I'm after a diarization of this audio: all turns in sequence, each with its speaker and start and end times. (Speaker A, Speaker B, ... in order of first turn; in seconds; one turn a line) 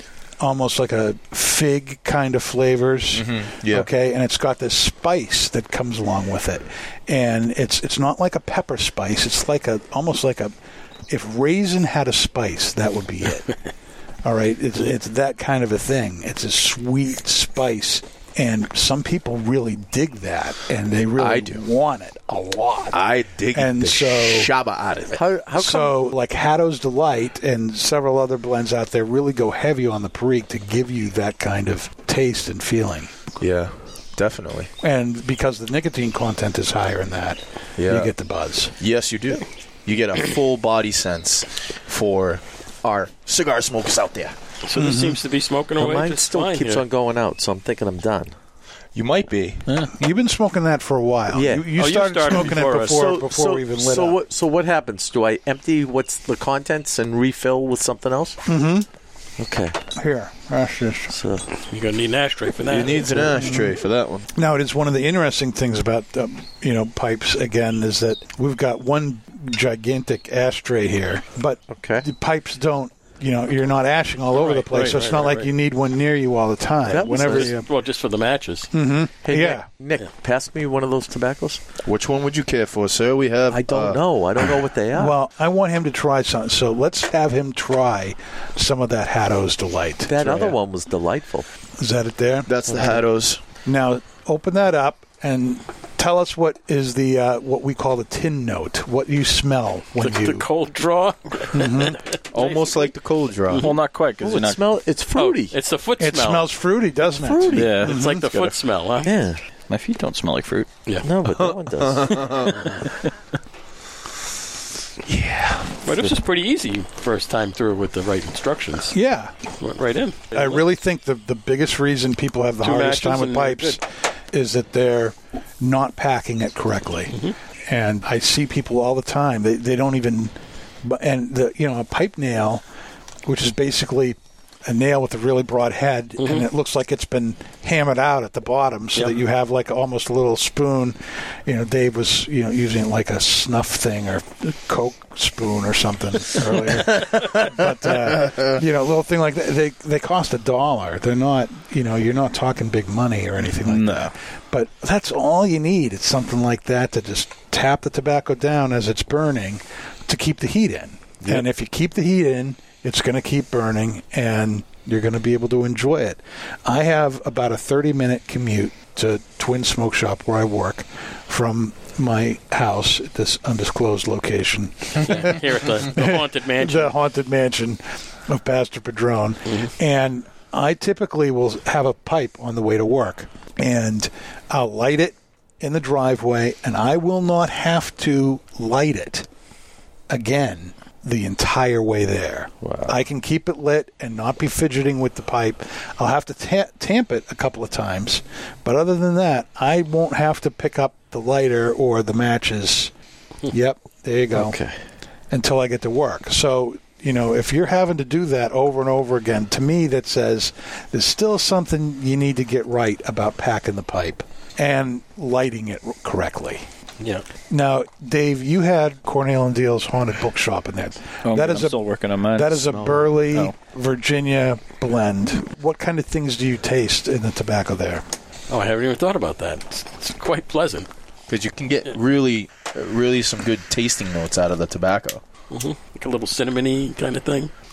Speaker A: 0.4-10.5
Speaker B: 3.1-3.9
Speaker A: 11.1-13.5
Speaker A: 14.2-23.0
Speaker B: 21.2-21.6
Speaker B: 22.9-25.2
Speaker A: 23.5-24.5
Speaker C: 25.1-26.1
Speaker A: 25.6-33.1
Speaker B: 33.4-34.7
Speaker A: 34.8-38.7
Speaker B: 37.8-38.1
Speaker B: 38.8-44.4
Speaker D: 44.7-46.8
Speaker A: 44.8-45.2
Speaker C: 45.8-48.3
Speaker B: 49.0-49.6
Speaker A: 50.0-54.2
Speaker C: 51.3-51.7
Speaker D: 51.8-53.1
Speaker C: 52.3-58.4
Speaker A: 58.5-58.9
Speaker C: 59.4-59.8
Speaker A: 60.0-61.1
Speaker C: 61.1-61.5
Speaker D: 61.7-63.2
Speaker B: 62.7-64.3
Speaker A: 63.4-63.7
Speaker A: 64.3-77.7
Speaker C: 71.7-72.1
Speaker D: 74.3-75.5
Speaker C: 76.8-77.5
Speaker D: 77.0-78.7
Speaker A: 78.7-79.7
Speaker C: 79.2-81.6
Speaker B: 81.8-84.5
Speaker C: 83.5-85.2
Speaker A: 85.0-90.6
Speaker C: 90.1-91.5
Speaker A: 91.8-93.0
Speaker B: 92.5-93.4
Speaker A: 93.7-100.5
Speaker D: 100.0-102.9
Speaker A: 101.5-102.0
Speaker B: 102.3-103.7
Speaker E: 103.6-104.6
Speaker C: 104.2-105.5
Speaker D: 105.1-106.5
Speaker A: 106.0-108.2
Speaker C: 107.2-107.9
Speaker E: 107.5-108.6
Speaker D: 107.8-109.1
Speaker C: 109.0-109.4
Speaker E: 109.7-110.7
Speaker C: 111.0-112.5
Speaker B: 111.3-112.6
Speaker B: 115.1-115.8
Speaker D: 115.8-119.0
Speaker A: 118.9-119.3
Speaker D: 119.6-120.6
Speaker A: 120.3-127.1
Speaker D: 122.6-123.8
Speaker A: 127.7-132.6
Speaker A: 133.3-189.3
Speaker D: 136.2-136.5
Speaker B: 148.2-148.5
Speaker E: 153.6-154.1
Speaker D: 175.0-176.9
Speaker A: 190.1-202.9
Speaker C: 192.6-193.0
Speaker A: 203.5-204.6
Speaker C: 204.3-204.8
Speaker A: 205.3-216.7
Speaker D: 217.0-217.2
Speaker A: 217.5-228.1
Speaker E: 221.2-223.5
Speaker D: 228.5-230.9
Speaker B: 231.3-235.2
Speaker D: 235.5-237.5